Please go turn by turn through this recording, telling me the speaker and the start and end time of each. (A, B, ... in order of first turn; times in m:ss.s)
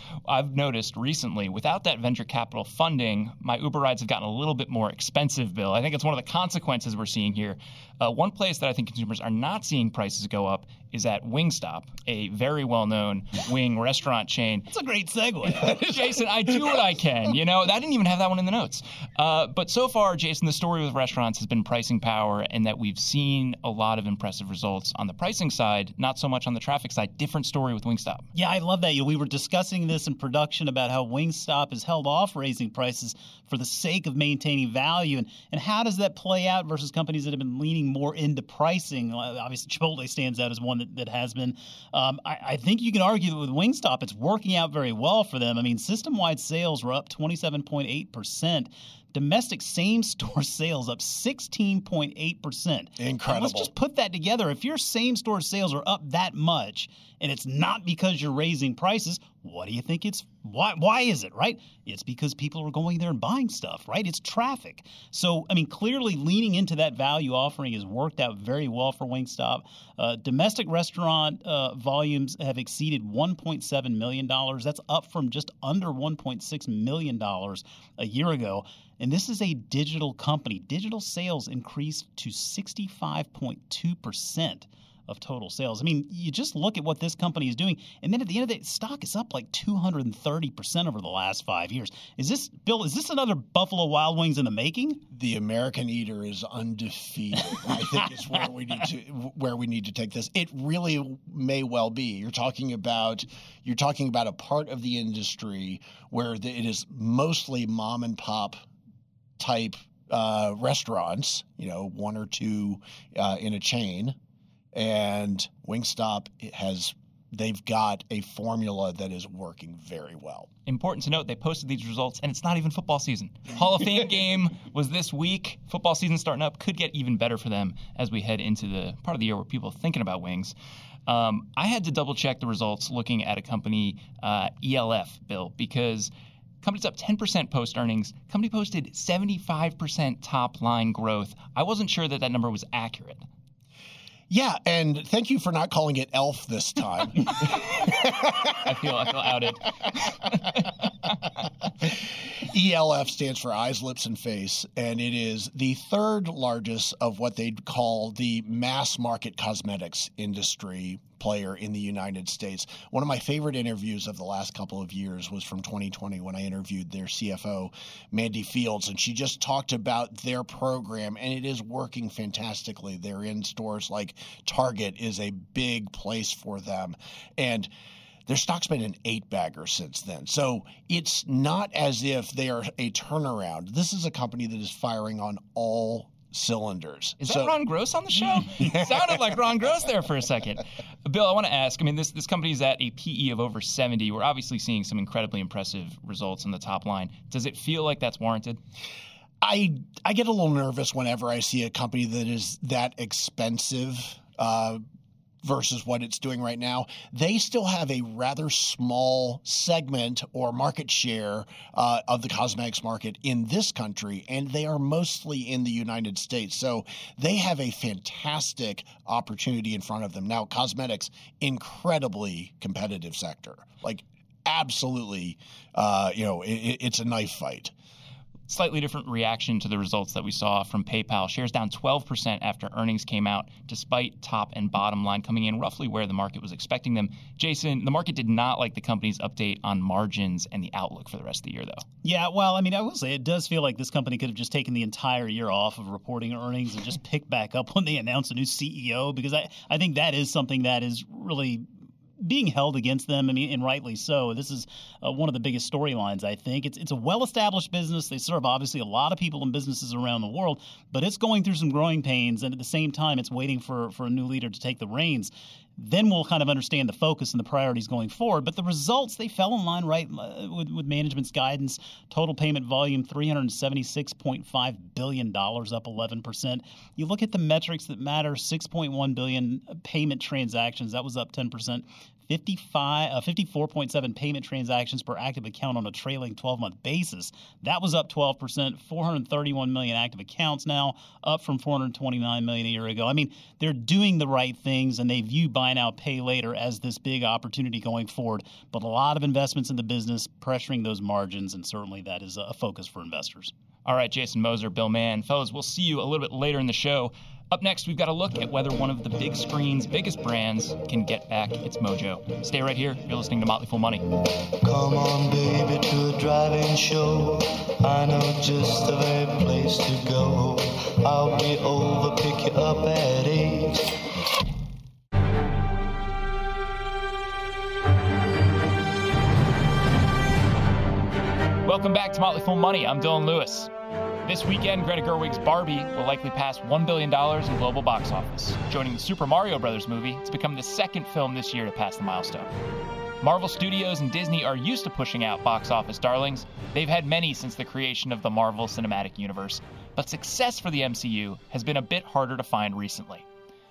0:00.2-0:14.7 A
0:14.7-0:15.8 B
0:15.6-0:28.3 A
0:28.4-1:35.0 B
0:53.0-0:53.7 C
1:35.1-1:48.6 C
1:49.4-1:54.2 C
1:54.7-2:00.5 C
2:00.7-2:10.5 A
2:11.1-2:16.1 A
2:16.6-2:23.2 A
2:24.3-2:28.4 C
2:28.6-2:30.9 A
2:31.8-2:57.7 C
2:58.3-3:07.6 C
3:07.2-3:18.6 A
3:19.4-3:24.8 C
3:25.4-3:47.7 C
3:48.5-4:01.8 A
4:02.0-4:11.6 B
4:12.2-5:03.5 B
5:03.8-5:14.0 A
5:14.6-5:23.9 D
5:31.6-5:33.7 A
5:34.2-5:42.5 A
5:43.2-5:53.3 A